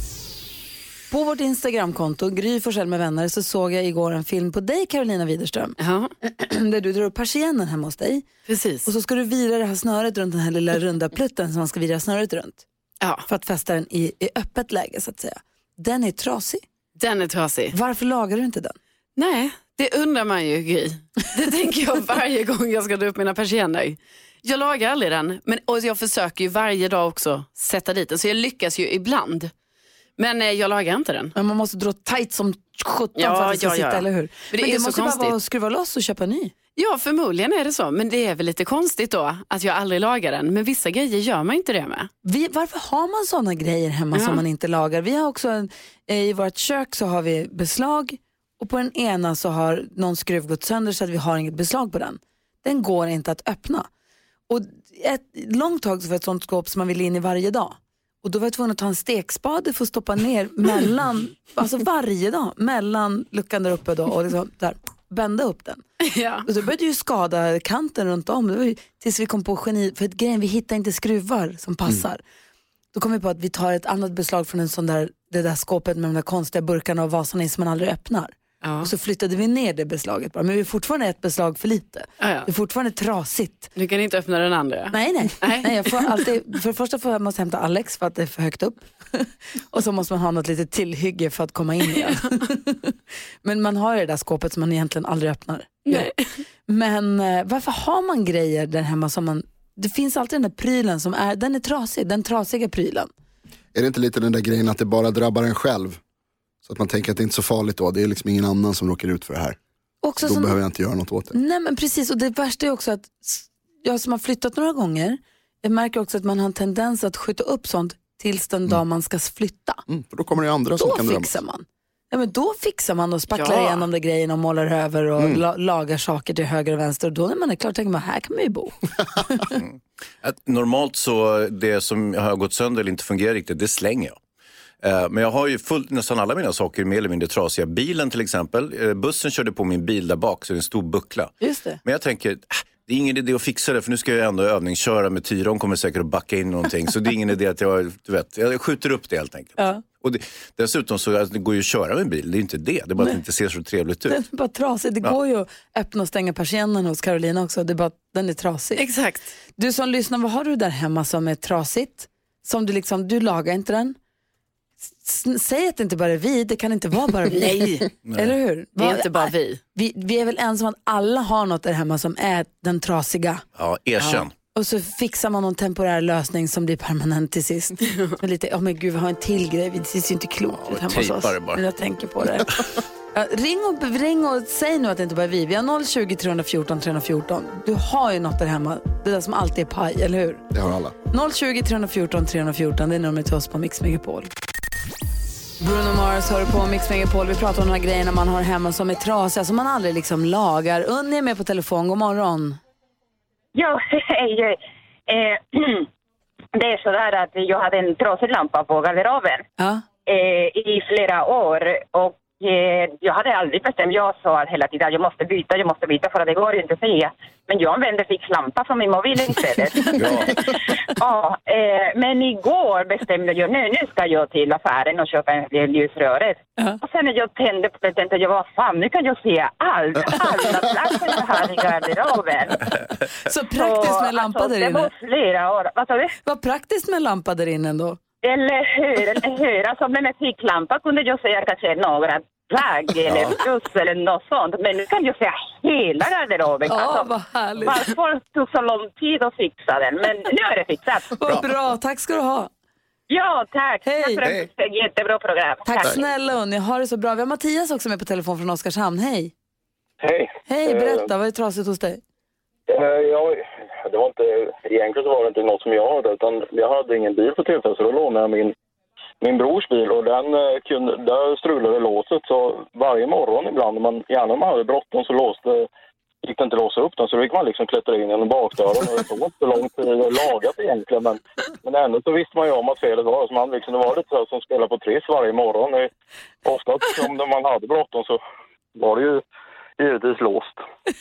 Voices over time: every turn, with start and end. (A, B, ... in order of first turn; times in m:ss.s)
0:01.1-0:08.3 A
0:05.8-0:06.1 B
0:08.4-0:08.8 B
0:08.8-0:12.6 A
0:13.2-0:16.6 A
0:17.0-0:17.7 B
0:17.7-0:18.8 A
0:19.2-0:29.5 B
0:30.2-0:31.3 B
0:31.3-0:36.5 A
0:33.2-0:34.0 B
0:34.5-0:35.3 B
0:36.8-0:42.1 B
0:42.2-0:53.9 A
0:44.1-0:44.4 B
0:54.5-1:05.8 A
1:06.1-1:06.4 B
1:06.4-1:12.2 A
1:12.9-1:23.7 A
1:18.6-1:18.9 B
1:22.2-1:22.5 B
1:23.8-1:25.6 B
1:24.9-1:36.1 A
1:36.7-1:43.1 A
1:43.7-1:46.0 C
1:46.6-1:49.6 C
1:50.0-1:50.6 A
1:50.2-1:51.4 C
1:51.3-1:59.8 A
1:59.9-2:01.4 C
2:00.8-2:09.6 A
2:03.3-2:03.8 B
2:09.6-2:14.2 D
2:14.8-2:21.3 D
2:21.4-2:21.8 A
2:21.8-2:34.2 D
2:34.1-2:38.8 A
2:38.8-2:39.3 B
2:39.6-2:44.0 A
2:45.0-2:53.4 A
2:47.4-2:47.9 B
2:48.0-2:48.4 D
2:48.8-2:49.6 B
2:53.6-2:54.3 D
2:54.5-3:10.4 A
3:00.5-3:01.6 D
3:10.5-3:10.9 C
3:11.1-3:14.3 A
3:15.6-3:22.6 A
3:23.5-3:25.9 E
3:26.6-3:29.4 E
3:29.6-3:29.8 A
3:30.0-3:52.6 E
3:39.9-3:40.3 D
3:53.2-3:54.9 A
3:53.5-3:56.1 E
3:56.2-3:58.0 A
3:58.2-4:11.1 E
4:03.1-4:03.3 D
4:06.7-4:07.8 A
4:11.2-4:12.5 A
4:13.1-4:16.0 E
4:13.8-4:14.2 A
4:15.6-4:19.3 A
4:20.0-4:21.1 F
4:20.5-4:22.0 A
4:22.7-4:28.5 F
4:29.2-4:35.7 F
4:36.2-4:45.9 F
4:46.4-4:48.2 F
4:48.8-4:49.2 F
4:49.8-4:50.6 F